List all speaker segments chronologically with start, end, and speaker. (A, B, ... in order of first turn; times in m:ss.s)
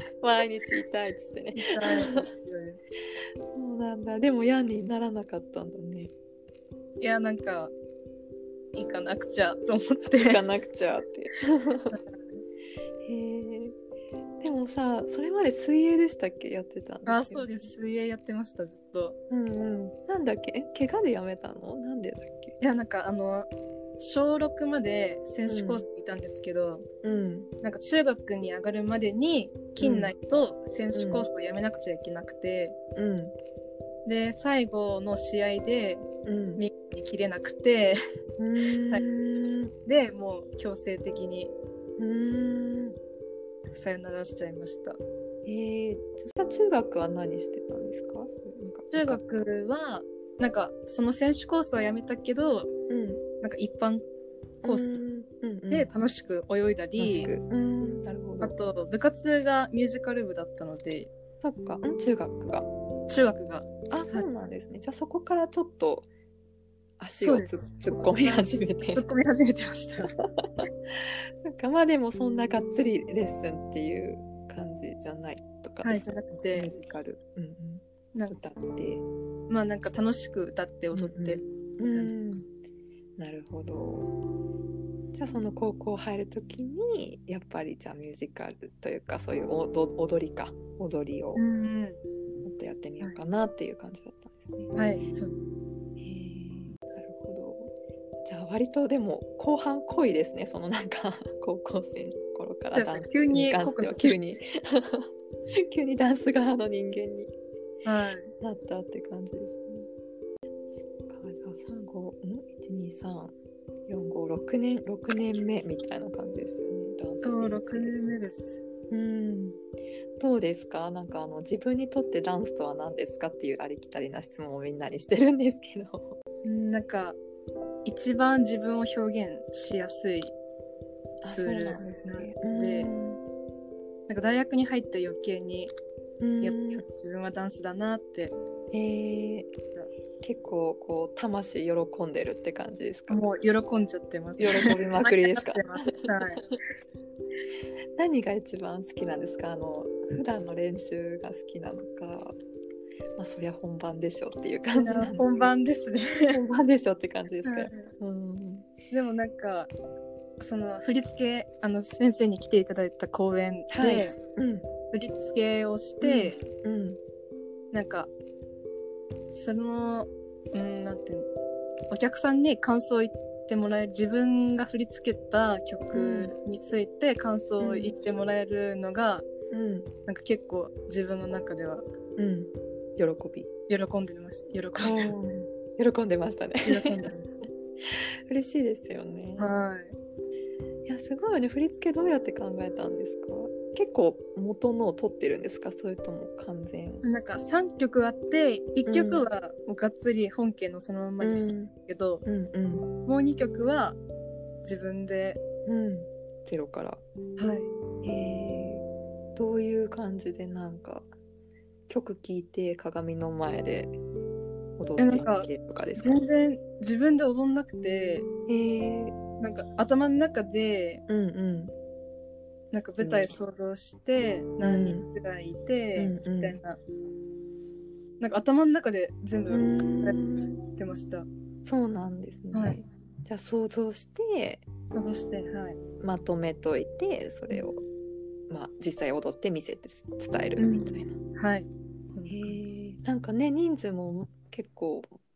0:00.2-0:02.3 A
0:01.5-0:02.8 B
0:03.5-0:06.1 A
0:07.0-0:07.7 B
0:08.7-0:10.4 B
0:10.2-0:12.0 A
0:13.0-0:13.7 A
0:14.4-0:17.6 A
0:17.0-0:19.2 B
0:19.3-0:22.5 A
0:22.6-0:26.9 B
0:25.5-0:25.8 A
0:27.0-0:27.5 A
0:27.6-0:32.7 B
0:29.8-0:30.1 A
0:30.9-0:31.2 A
0:32.9-0:33.3 A
0:34.0-0:38.0 B
0:36.2-0:36.6 A
0:38.4-0:39.7 A
0:39.8-0:41.5 B
0:42.0-0:43.0 A
0:43.7-0:45.0 B
0:45.4-0:49.2 A
0:48.9-0:52.7 B
0:52.9-0:53.2 A
0:53.4-0:54.0 B
0:54.6-0:55.9 A
0:54.6-0:55.0 B
0:55.7-0:57.3 B
0:57.0-0:58.5 A
0:58.4-1:01.1 B
1:01.4-1:02.7 A
1:03.1-1:04.2 B
1:03.9-1:06.1 A
1:07.0-1:09.0 A
1:07.2-1:10.1 B
1:10.2-1:10.7 A
1:11.4-1:16.0 A
1:15.8-1:16.8 B
1:16.5-1:19.0 A
1:19.5-1:22.4 B
1:20.9-1:22.4 A
1:23.2-1:24.1 A
1:25.1-1:31.4 A
1:31.3-1:32.0 B
1:32.4-1:34.8 A
1:34.7-1:35.4 B
1:36.0-1:37.7 A
1:38.2-1:47.3 A
1:42.7-1:44.1 B
1:47.8-1:48.3 B
1:48.4-1:49.9 A
1:51.1-1:53.3 A
1:53.9-1:58.1 A
1:57.2-1:58.6 B
1:58.9-1:59.6 A
2:00.2-2:06.1 A
2:06.4-2:07.2 B
2:07.8-2:10.3 B
2:11.2-2:13.2 A
2:11.2-2:12.9 B
2:14.1-2:15.7 B
2:16.2-2:16.8 A
2:16.4-2:18.3 B
2:18.7-2:19.5 A
2:20.2-2:23.2 A
2:23.1-2:26.4 B
2:24.4-2:26.5 A
2:28.0-2:32.4 A
2:33.2-2:35.5 A
2:34.7-2:36.4 B
2:36.3-2:38.7 A
2:37.4-2:37.9 B
2:38.9-2:39.7 B
2:40.4-2:44.2 B
2:43.7-2:44.7 A
2:44.9-2:46.4 B
2:46.0-2:47.0 A
2:47.7-2:48.1 B
2:49.3-2:51.3 B
2:51.9-2:59.2 B
2:55.9-2:56.3 A
2:57.6-2:58.0 A
2:59.5-2:59.9 A
3:00.1-3:01.8 B
3:02.2-3:03.5 A
3:03.7-3:05.1 B
3:04.8-3:07.1 A
3:06.6-3:07.4 B
3:07.8-3:09.5 A
3:09.4-3:09.9 B
3:10.8-3:17.0 A
3:17.0-3:22.2 B
3:18.8-3:19.2 A
3:21.2-3:21.7 A
3:22.2-3:22.9 A
3:23.0-3:24.0 B
3:24.6-3:25.4 B
3:25.6-3:27.0 A
3:27.4-3:27.7 B
3:28.0-3:31.1 A
3:31.9-3:34.0 A
3:34.8-3:36.2 A
3:35.0-3:38.3 B
3:38.5-3:39.2 A
3:39.4-3:41.0 B
3:41.1-3:41.7 A
3:42.7-3:46.8 B
3:43.0-3:43.3 A
3:44.6-3:45.1 A
3:46.0-3:46.6 A
3:48.2-3:50.2 B
3:49.5-3:50.6 A
3:50.7-3:51.3 B
3:51.6-3:54.6 A
3:52.5-3:52.8 B
3:54.9-3:55.8 B
3:56.0-3:57.8 A
3:58.5-4:01.2 A
4:00.6-4:02.6 B
4:02.3-4:05.1 A